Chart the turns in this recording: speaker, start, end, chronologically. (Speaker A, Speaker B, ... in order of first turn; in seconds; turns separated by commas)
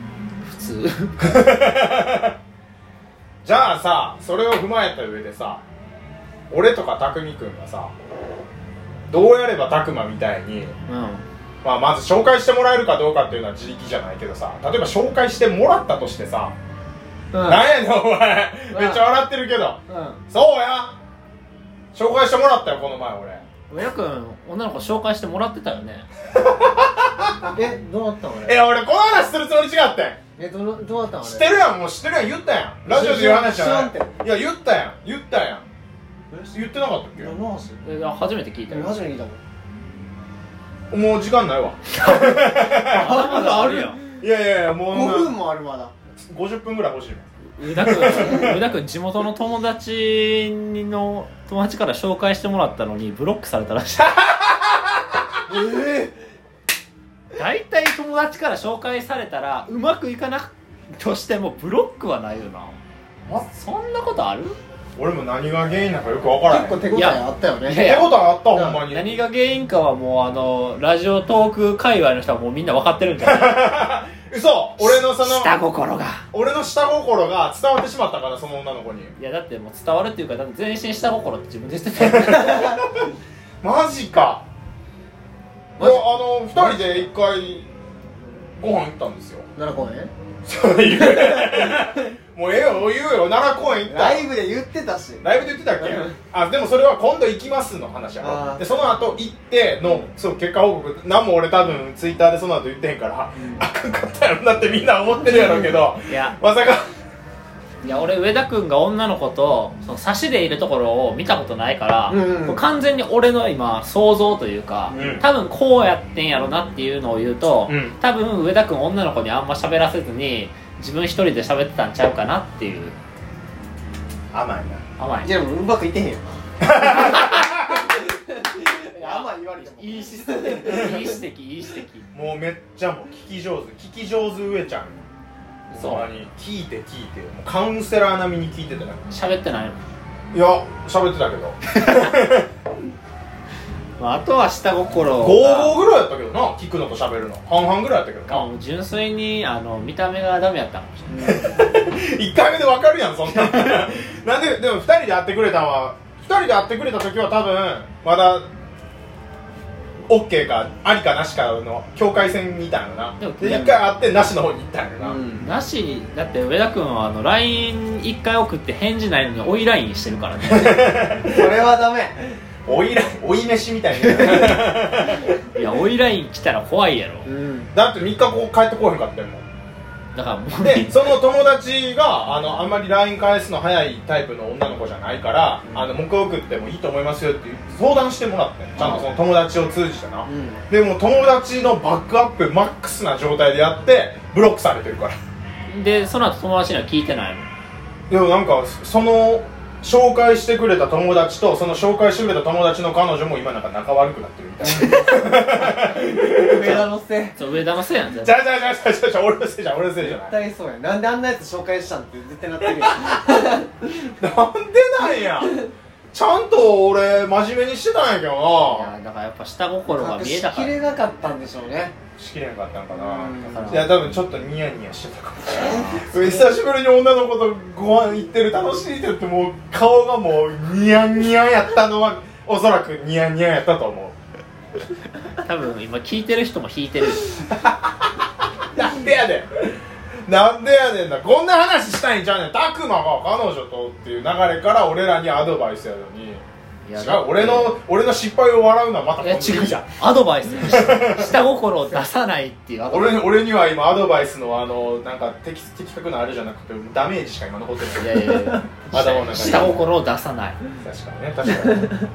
Speaker A: 0.4-1.2, Speaker B: 1.2-2.4, Speaker B: 3.4-5.6, Speaker B: 6.5-7.9, Speaker B: 9.1-10.8, Speaker A: 10.9-11.3, Speaker B: 11.6-16.6, Speaker A: 17.3-17.6, Speaker B: 17.4-21.0, Speaker C: 18.7-19.0, Speaker A: 19.9-20.2, Speaker B: 21.9-23.4, Speaker A: 23.7-26.1, Speaker B: 26.4-27.6, Speaker C: 27.5-28.6, Speaker B: 28.4-30.2, Speaker C: 30.4-31.5, Speaker B: 31.2-35.7, Speaker C: 32.9-34.2, Speaker C: 36.3-37.8, Speaker B: 36.5-37.4, Speaker A: 37.8-39.0, Speaker C: 38.7-39.4, Speaker B: 40.9-43.3, Speaker A: 42.6-44.0, Speaker C: 42.9-44.0, Speaker B: 44.1-45.3, Speaker C: 44.9-45.9, Speaker B: 46.3-48.5, Speaker A: 47.5-54.2, Speaker B: 54.3-54.9, Speaker C: 55.5-56.1, Speaker A: 57.4-62.8, Speaker A: 63.3-64.6, Speaker B: 65.0-66.8, Speaker C: 66.5-67.9, Speaker A: 66.9-68.3, Speaker B: 67.7-69.2, Speaker C: 68.5-68.8, Speaker A: 68.9-73.7, Speaker B: 73.2-75.6, Speaker A: 74.8-76.2, Speaker B: 76.3-79.1, Speaker A: 79.2-82.8, Speaker B: 82.0-82.7, Speaker B: 83.6-84.5, Speaker C: 85.8-87.0, Speaker B: 85.8-87.7, Speaker B: 88.6-89.5, Speaker C: 89.6-90.1, Speaker B: 90.5-94.3, Speaker C: 91.1-91.8, Speaker C: 93.9-95.3, Speaker B: 95.2-106.8, Speaker C: 95.9-96.1, Speaker C: 98.2-98.7, Speaker C: 103.4-103.7, Speaker C: 105.2-105.9, Speaker A: 106.1-106.4, Speaker A: 107.8-123.0, Speaker C: 112.1-112.6, Speaker B: 114.9-115.3, Speaker B: 117.7-118.0, Speaker B: 124.3-124.8, Speaker A: 125.0-125.3, Speaker C: 125.2-126.4, Speaker B: 126.6-127.9, Speaker C: 128.4-131.2, Speaker A: 128.6-132.1, Speaker B: 132.1-135.1, Speaker A: 135.7-136.1, Speaker B: 135.7-139.0, Speaker A: 139.1-139.8, Speaker B: 140.3-142.5, Speaker A: 144.0-145.8, Speaker B: 145.2-148.5, Speaker A: 148.3-151.3, Speaker C: 151.1-151.7, Speaker B: 151.2-158.5, Speaker B: 160.1-165.2, Speaker A: 163.2-163.8, Speaker C: 163.4-163.8, Speaker C: 165.0-165.5, Speaker A: 165.3-170.9, Speaker B: 170.4-171.5, Speaker C: 171.2-172.4, Speaker B: 172.7-175.4, Speaker A: 174.1-174.5, Speaker A: 175.5-177.3, Speaker C: 177.3-177.7, Speaker B: 177.7-179.4, Speaker A: 180.2-181.2, Speaker B: 180.6-195.2, Speaker C: 188.8-189.1, Speaker C: 190.3-190.6, Speaker A: 195.7-197.5, Speaker B: 198.1-206.8, Speaker C: 204.6-207.4, Speaker A: 206.6-208.4, Speaker B: 208.2-210.3, Speaker C: 210.0-213.7, Speaker B: 214.0-215.6, Speaker B: 216.1-218.9, Speaker A: 218.6-220.8, Speaker C: 219.9-222.0, Speaker B: 222.2-234.2, Speaker C: 222.9-223.9, Speaker A: 223.5-224.2, Speaker C: 225.6-226.6, Speaker A: 235.4-237.3, Speaker B: 237.4-249.8, Speaker A: 246.8-247.8, Speaker A: 249.2-253.2, Speaker B: 250.6-251.4, Speaker B: 252.9-258.4, Speaker A: 258.0-260.6, Speaker B: 258.9-259.8, Speaker B: 260.8-261.9